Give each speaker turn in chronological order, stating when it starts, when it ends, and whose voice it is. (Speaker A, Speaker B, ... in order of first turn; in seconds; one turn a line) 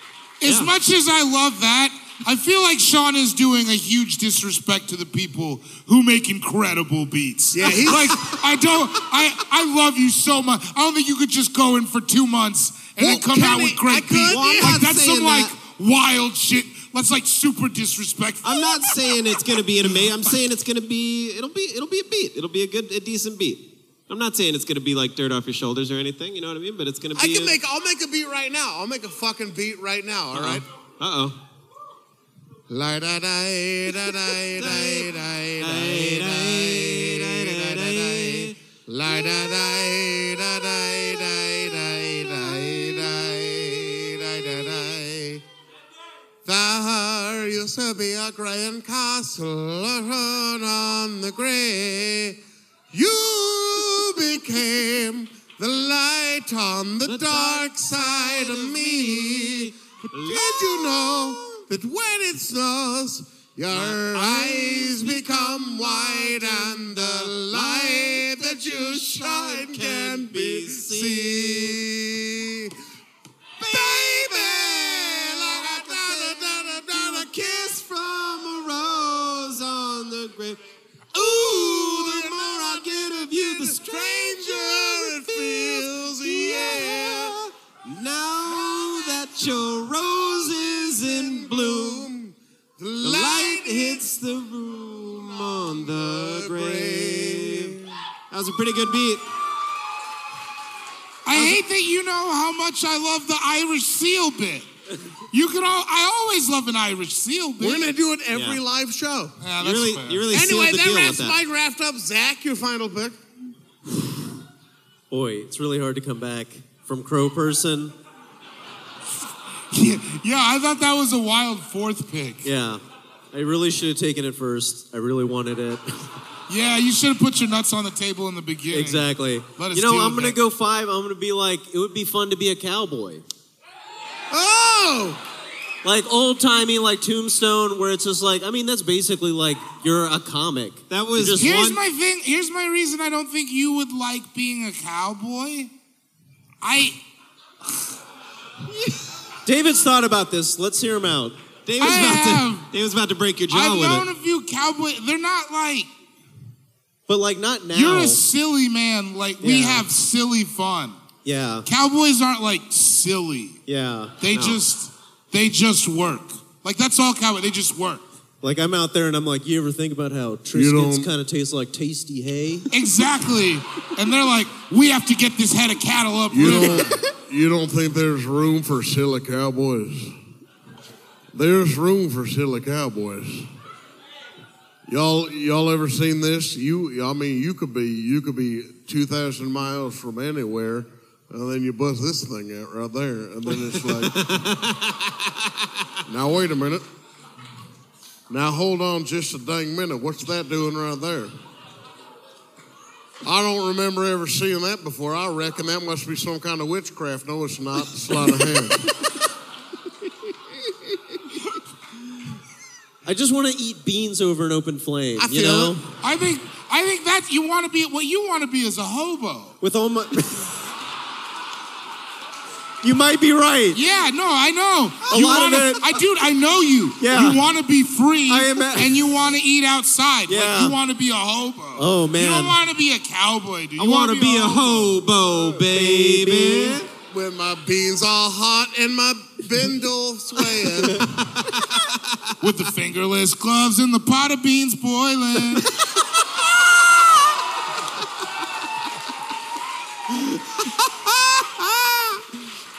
Speaker A: 0.4-18.9
Speaker B: 0.5-0.7
Speaker C: 7.5-8.3
Speaker C: 13.0-14.8
Speaker B: 14.3-15.5
Speaker B: 18.4-27.6
Speaker C: 27.1-30.6
Speaker B: 30.3-31.4
Speaker C: 32.7-45.4
Speaker B: 34.6-38.6
Speaker C: 46.5-52.4
Speaker C: 52.9-72.7
Speaker B: 57.0-61.6
Speaker B: 63.7-71.8
Speaker C: 73.6-77.7
Speaker B: 73.6-80.6
Speaker C: 81.1-87.4
Speaker B: 81.2-92.1
Speaker C: 90.9-94.0
Speaker B: 93.0-99.2
Speaker C: 95.3-97.9
Speaker A: 101.2-104.7
Speaker A: 105.3-107.9
Speaker C: 107.6-109.4
Speaker B: 108.3-108.6
Speaker A: 109.4-110.2
Speaker B: 109.6-111.4
Speaker C: 110.3-113.2
Speaker D: 115.1-117.9
Speaker A: 119.7-122.5
Speaker D: 122.4-122.8
Speaker D: 123.3-125.8
Speaker A: 126.5-130.4
Speaker D: 128.7-133.2
Speaker C: 134.3-135.2
Speaker D: 135.8-141.6
Speaker B: 140.9-141.8
Speaker A: 141.4-145.7
Speaker A: 146.6-147.0
Speaker D: 149.5-151.4
Speaker B: 151.7-154.1
Speaker A: 151.8-152.7
Speaker A: 153.5-155.9
Speaker D: 157.1-158.2
Speaker A: 157.7-161.0
Speaker D: 159.4-159.9
Speaker D: 161.2-161.7
Speaker A: 161.7-163.6
Speaker D: 163.7-164.2
Speaker A: 164.2-168.1
Speaker B: 164.3-164.6
Speaker D: 168.4-172.7
Speaker C: 170.5-171.1
Speaker A: 172.7-176.9
Speaker C: 176.3-180.2
Speaker C: 181.3-183.5
Speaker C: 184.9-194.5
Speaker B: 193.8-195.2
Speaker C: 196.1-196.8
Speaker C: 198.3-201.3
Speaker C: 203.2-208.9
Speaker D: 213.1-215.8
Speaker C: 215.2-215.8
Speaker A: 216.0-219.6
Speaker D: 219.6-220.5
Speaker D: 222.8-223.8
Speaker A: 223.7-235.0
Speaker D: 225.1-226.0
Speaker D: 227.0-227.4
Speaker D: 228.3-229.1
Speaker D: 230.3-230.8
Speaker D: 231.8-232.6
Speaker B: 233.8-236.9
Speaker D: 235.7-236.8
Speaker C: 237.1-241.1
Speaker A: 242.4-245.7
Speaker B: 250.7-252.2